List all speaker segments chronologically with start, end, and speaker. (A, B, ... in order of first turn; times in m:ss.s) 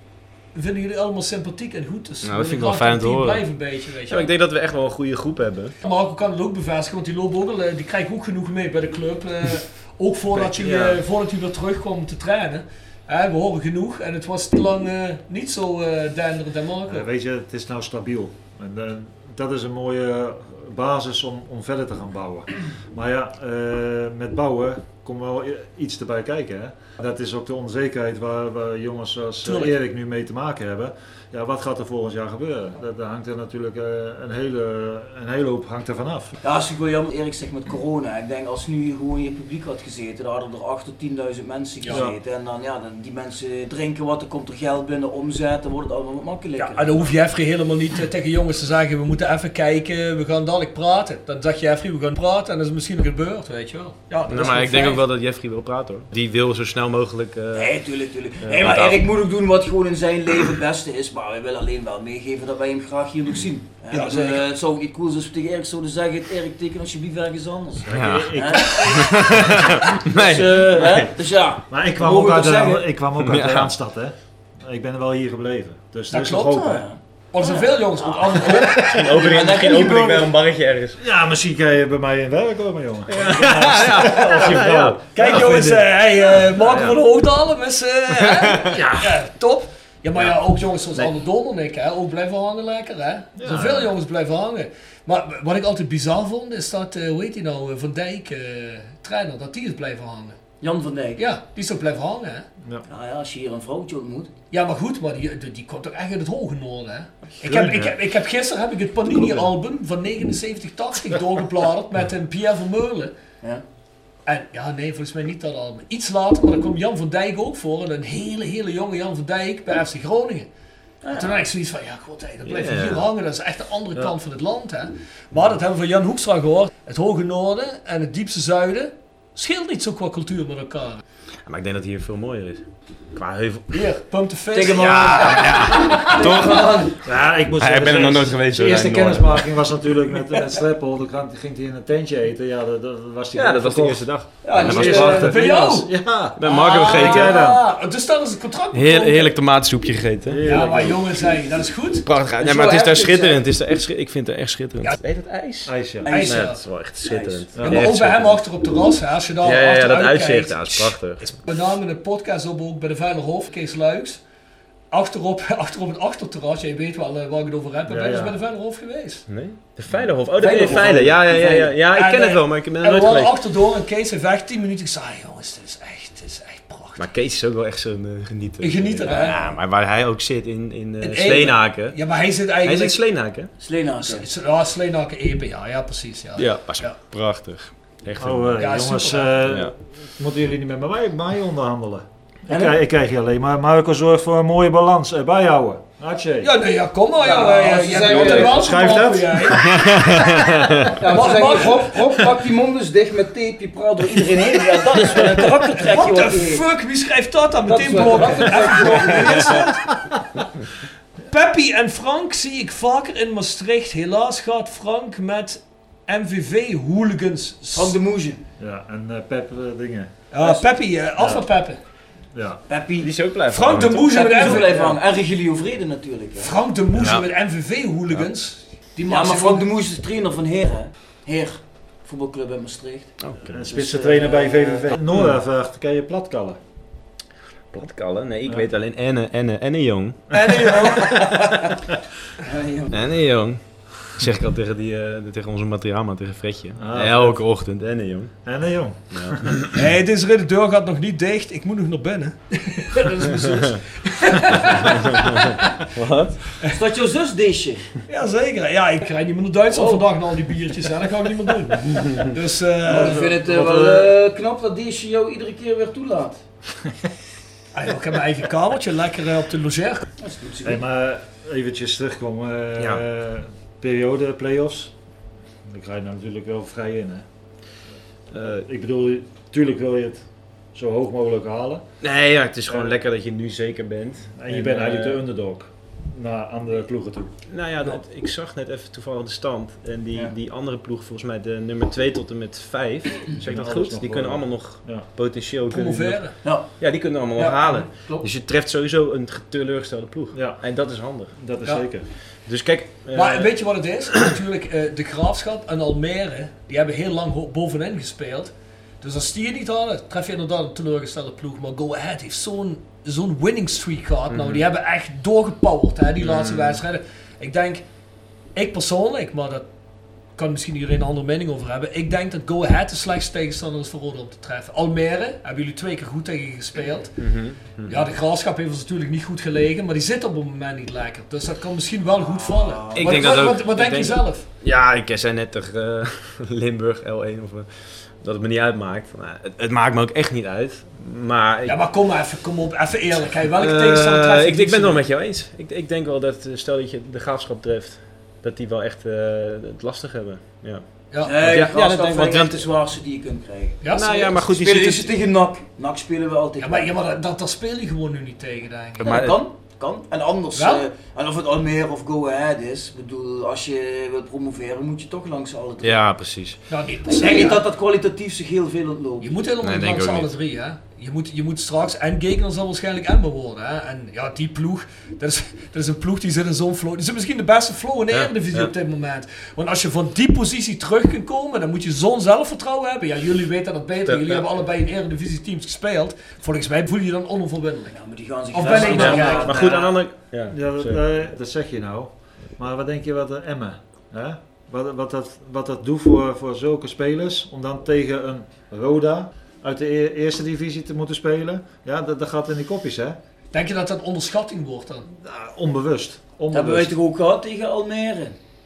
0:00.5-0:04.3 A
0:02.2-0:03.4 B
0:04.1-0:05.7 B
0:05.8-0:17.0 A
0:10.4-0:11.0 B
0:16.9-0:36.3 C
0:29.4-0:29.7 A
0:36.4-0:47.0 D
0:46.6-0:55.0 A
0:54.3-0:57.8 B
0:57.5-1:08.9 D
0:58.4-0:59.0 B
1:03.9-1:04.4 A
1:07.9-1:09.8 C
1:07.9-1:11.1 B
1:10.1-1:12.8 D
1:11.7-1:16.8 C
1:13.2-1:13.7 B
1:16.1-1:16.6 A
1:16.5-1:20.4 D
1:17.3-1:19.4 A
1:18.4-1:21.0 B
1:21.0-1:25.8 C
1:23.1-1:25.8 B
1:25.1-1:40.4 A
1:26.6-1:27.0 B
1:28.2-1:29.1 B
1:33.4-1:33.9 C
1:40.6-1:41.2 D
1:41.2-1:42.4 A
1:42.9-1:44.3 D
1:44.5-1:53.1 A
1:47.4-1:47.9 C
1:49.2-1:49.4 C
1:54.2-2:00.5 A
2:01.0-2:01.5 D
2:01.1-2:11.0 A
2:02.4-2:03.0 B
2:11.4-2:13.8 B
2:13.7-2:16.5 A
2:14.5-2:16.9 D
2:14.7-2:16.9 B
2:17.0-2:27.6 C
2:17.5-2:19.4 B
2:23.3-2:25.4 B
2:24.4-2:25.5 D
2:24.8-2:29.4 A
2:26.4-2:27.4 B
2:28.7-2:30.6 B
2:30.3-2:31.1 C
2:30.4-2:32.0 A
2:32.0-2:38.4 B
2:32.4-2:33.4 D
2:35.6-2:36.1 C
2:36.0-2:37.5 D
2:36.1-2:36.6 A
2:37.6-2:37.8 C
2:37.6-2:44.2 A
2:39.4-2:41.3 B
2:44.9-2:49.2 A
2:47.9-2:48.4 C
2:49.3-2:53.4 B
2:50.4-2:50.8 A
2:50.4-2:51.7 D
2:50.6-2:51.2 C
2:51.9-2:57.1 A
2:57.0-3:02.0 B
2:58.6-2:59.4 A
2:59.0-2:59.4 D
3:01.0-3:03.0 A
3:02.6-3:03.5 B
3:03.6-3:04.2 D
3:04.1-3:07.0 A
3:06.4-3:08.6 B
3:08.2-3:16.5 C
3:08.6-3:09.4 A
3:09.4-3:09.7 B
3:12.5-3:12.8 D
3:16.4-3:20.0 A
3:17.2-3:19.0 D
3:18.6-3:18.9 B
3:18.6-3:19.2 C
3:19.4-3:21.0 B
3:21.0-3:26.6 D
3:21.0-3:22.0 A
3:24.9-3:29.8 A
3:27.6-3:29.7 D
3:31.3-3:38.0 A
3:37.7-3:38.4 D
3:38.6-3:40.1 C
3:40.3-3:41.8 A
3:40.4-3:40.6 D
3:41.2-3:41.4 C
3:42.3-3:42.6 C
3:42.7-3:43.1 D
3:43.0-3:44.5 B
3:43.5-3:44.8 A
3:43.8-3:46.5 D
3:46.4-3:49.6 A
3:47.0-3:47.2 B
3:49.1-3:55.0 D
3:53.2-3:53.6 B
3:53.5-3:56.6 C
3:57.7-4:00.4 B
4:00.3-4:01.2 A
4:01.0-4:01.7 D
4:02.4-4:03.1 D
4:02.9-4:08.4 B
4:06.8-4:07.4 C
4:08.4-4:09.6 C
4:09.1-4:09.7 B
4:09.7-4:15.7 A
4:14.9-4:16.4 B
4:16.6-4:17.9 D
4:18.1-4:23.2 A
4:19.7-4:20.1 D
4:22.9-4:26.4 D
4:22.9-4:24.1 C
4:27.7-4:30.1 A
4:30.2-4:30.8 D
4:30.6-4:34.9 C
4:32.8-4:33.0 B
4:35.7-4:37.2 C
4:38.3-4:41.8 C
4:38.3-4:38.6 B
4:42.0-4:45.2 B
4:42.7-4:42.9 C
4:44.4-4:47.3 C
4:47.5-5:01.3 B
4:53.4-4:55.1 C
4:55.7-4:56.3 A
4:56.4-4:56.7 D
4:57.4-4:58.3 D
5:00.3-5:00.6 C
5:01.3-5:02.0 C
5:02.4-5:03.5 B
5:03.1-5:17.8 A
5:14.3-5:14.6 B
5:16.2-5:16.8 B
5:18.5-5:19.7 A
5:20.4-5:27.3 A
5:27.2-5:28.1 B
5:27.8-5:34.4 A
5:32.2-5:33.4 D
5:32.9-5:41.8 B
5:41.6-5:45.0 A
5:43.3-5:52.6 B
5:51.1-5:51.4 A
5:51.2-5:56.9 D
5:53.8-5:54.4 A
5:53.9-5:55.1 B
5:56.6-5:59.2 A
5:59.0-5:59.4 B
5:59.0-6:06.0 D
6:00.5-6:00.8 A
6:05.8-6:06.6 B
6:06.7-6:07.6 A
6:07.0-6:09.3 D
6:09.2-6:28.0 A
6:09.6-6:10.3 B
6:18.1-6:18.7 B
6:24.0-6:24.5 B
6:27.9-6:30.0 D
6:28.5-6:29.6 A
6:28.8-6:31.0 B
6:30.3-6:43.2 C
6:43.5-6:45.0 A
6:45.2-6:46.9 C
6:46.5-6:48.4 D